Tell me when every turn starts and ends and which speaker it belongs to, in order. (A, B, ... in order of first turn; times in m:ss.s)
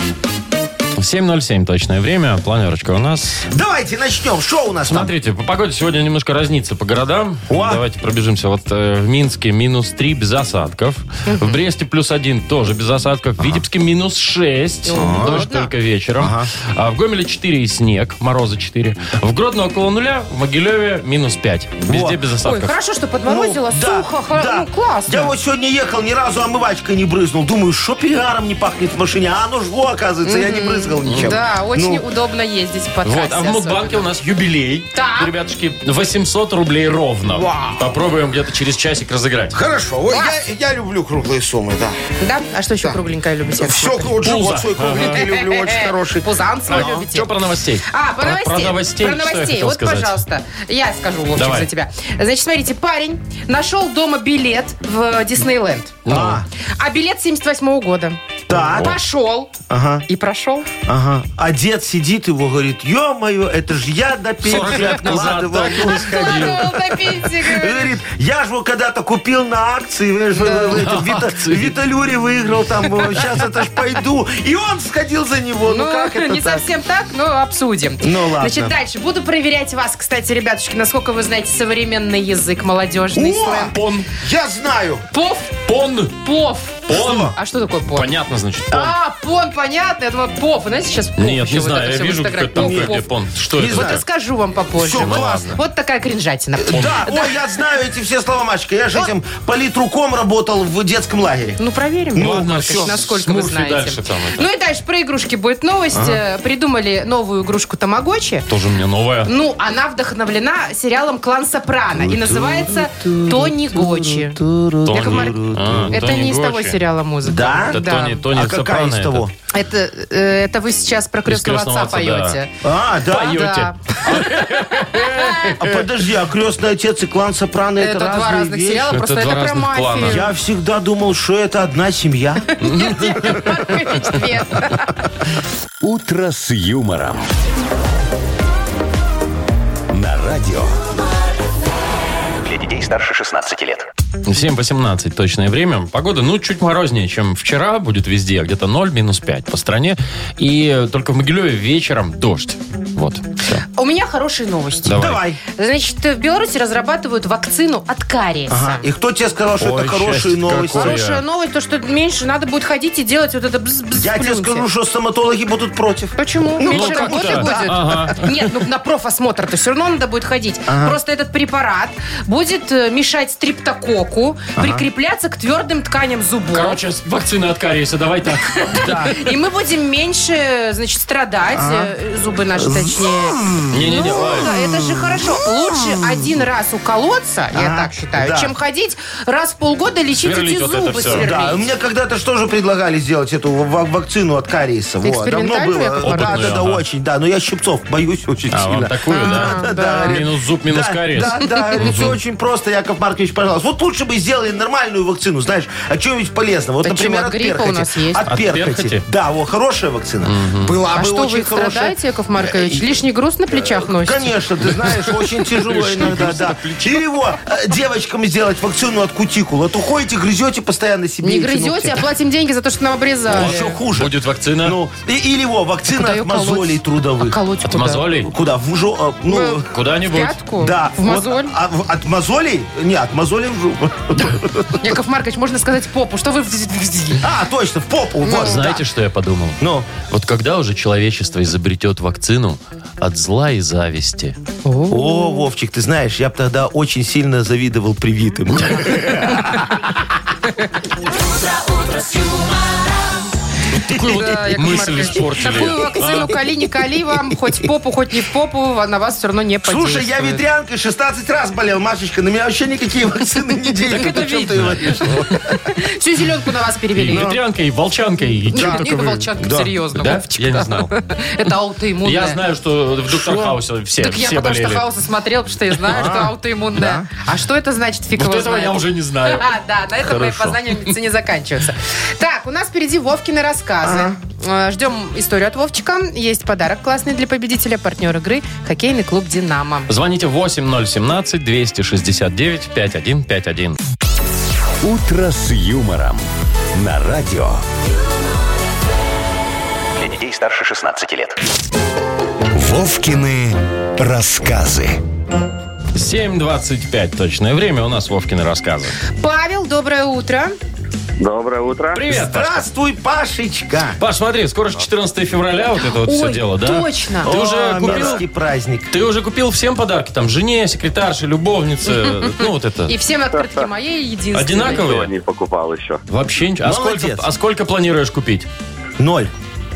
0:01.0-0:03.4 A
0:03.5-0:05.1 B
0:04.8-0:22.7 A
0:07.5-0:07.8 B
0:11.3-0:11.6 C
0:14.8-0:15.7 C
0:14.9-0:15.4 B
0:16.2-0:16.5 B
0:21.9-0:22.2 B
0:22.4-0:25.3 C
0:23.2-0:32.0 B
0:30.2-0:34.1 C
0:31.0-0:31.4 A
0:33.0-0:39.6 A
0:34.9-0:35.3 C
0:37.2-0:37.9 B
0:39.5-0:42.0 B
0:40.1-0:40.4 C
0:42.2-0:44.2 C
0:43.6-0:46.9 B
0:44.2-0:45.3 A
0:45.0-0:47.3 C
0:46.7-0:50.2 A
0:47.9-0:56.0 C
0:51.4-0:51.7 A
0:56.1-0:56.4 A
0:56.1-0:56.5 B
0:56.8-0:59.5 C
0:58.5-0:59.0 B
0:59.7-1:00.1 B
1:00.1-1:00.7 C
1:00.9-1:16.7 B
1:04.4-1:06.8 A
1:05.8-1:07.9 C
1:10.4-1:10.8 C
1:10.7-1:11.8 A
1:15.6-1:23.8 C
1:18.0-1:18.7 B
1:23.1-1:25.1 B
1:23.7-1:24.1 A
1:25.1-1:25.6 C
1:25.7-1:26.2 A
1:26.2-1:28.1 C
1:26.9-1:27.4 B
1:26.9-1:27.3 A
1:27.9-1:28.9 A
1:28.7-1:37.4 C
1:31.2-1:34.0 A
1:32.6-1:33.0 B
1:33.5-1:34.0 B
1:34.8-1:35.6 B
1:34.9-1:35.6 A
1:36.6-1:41.6 B
1:36.7-1:37.0 A
1:41.6-1:48.5 C
1:42.1-1:42.9 B
1:42.2-1:44.5 A
1:45.9-1:46.2 B
1:48.5-1:49.3 A
1:49.2-1:54.4 C
1:51.9-1:56.0 B
1:54.8-1:56.8 A
1:54.9-1:55.4 C
1:55.9-1:58.3 C
1:57.2-1:59.3 B
1:57.7-1:59.2 A
1:59.5-2:02.6 C
2:01.3-2:02.4 A
2:02.6-2:03.5 B
2:03.1-2:05.6 C
2:03.1-2:05.8 A
2:05.6-2:09.0 B
2:07.8-2:10.3 C
2:08.9-2:10.3 A
2:10.0-2:12.5 B
2:12.5-2:15.0 C
2:12.6-2:13.6 A
2:15.8-2:17.3 D
2:19.9-2:20.8 D
2:22.4-2:23.9 E
2:24.2-2:33.6 A
2:33.7-2:38.9 C
2:34.8-2:35.2 A
2:35.0-2:35.4 B
2:38.5-2:41.0 B
2:39.6-2:41.2 A
2:40.7-2:44.7 C
2:44.0-2:48.2 B
2:46.2-2:56.8 C
2:46.7-2:48.3 A
2:50.7-2:51.0 B
2:54.6-2:54.8 B
2:56.5-2:59.2 A
2:58.5-3:11.7 C
2:58.8-2:59.2 B
3:01.5-3:01.9 B
3:02.6-3:05.3 B
3:03.7-3:04.5 A
3:07.5-3:08.5 B
3:10.2-3:11.3 A
3:11.1-3:32.9 B
3:15.0-3:16.6 C
3:16.0-3:16.8 A
3:18.5-3:22.2 A
3:19.1-3:20.2 C
3:26.8-3:28.3 C
3:28.3-3:29.0 A
3:30.2-3:30.8 A
3:30.9-3:34.4 C
3:33.5-3:42.0 B
3:34.9-3:37.1 A
3:41.2-3:43.8 C
3:43.3-3:47.4 B
3:43.3-3:44.8 A
3:45.9-3:48.1 C
3:47.7-3:48.3 A
3:48.2-3:49.7 B
3:49.3-3:51.5 C
3:49.7-3:50.4 A
3:50.6-3:55.0 B
3:54.8-3:57.2 C
3:57.2-3:58.8 B
3:58.2-3:58.8 C
3:58.3-4:04.4 A
3:59.6-3:59.9 B
4:04.6-4:05.5 C
4:04.9-4:09.8 B
4:08.6-4:09.3 A
4:09.3-4:09.6 C
4:13.7-4:16.4 A
4:13.9-4:16.3 B
4:13.9-4:20.4 C
4:19.6-4:25.6 B
4:23.9-4:27.3 C
4:24.6-4:25.1 A
4:27.0-4:29.3 A
4:27.1-4:27.4 B
4:28.5-4:32.4 C
4:28.5-4:29.7 B
4:29.9-4:30.9 A
4:32.0-4:34.8 A
4:33.1-4:33.6 B
4:34.0-4:49.9 C
4:35.9-4:37.1 B
4:38.2-4:39.5 A
4:40.0-4:40.6 B
4:43.8-4:44.2 B
4:49.9-4:53.8 A
4:54.8-4:57.6 D
5:00.0-5:01.4 E
5:02.5-5:05.0 D
5:05.9-5:09.0 A
5:09.2-5:10.5 C
5:11.2-5:12.0 F
5:11.9-5:12.7 A
5:12.1-5:14.0 B
5:14.0-5:18.3 A
5:15.8-5:17.4 C
5:17.2-5:18.9 B
5:18.9-5:23.0 A
5:21.9-5:24.9 C
5:23.4-5:23.7 F
5:24.3-5:25.1 A
5:24.7-5:26.0 F
5:26.1-5:28.5 A
5:26.6-5:27.2 B
5:29.0-5:29.3 B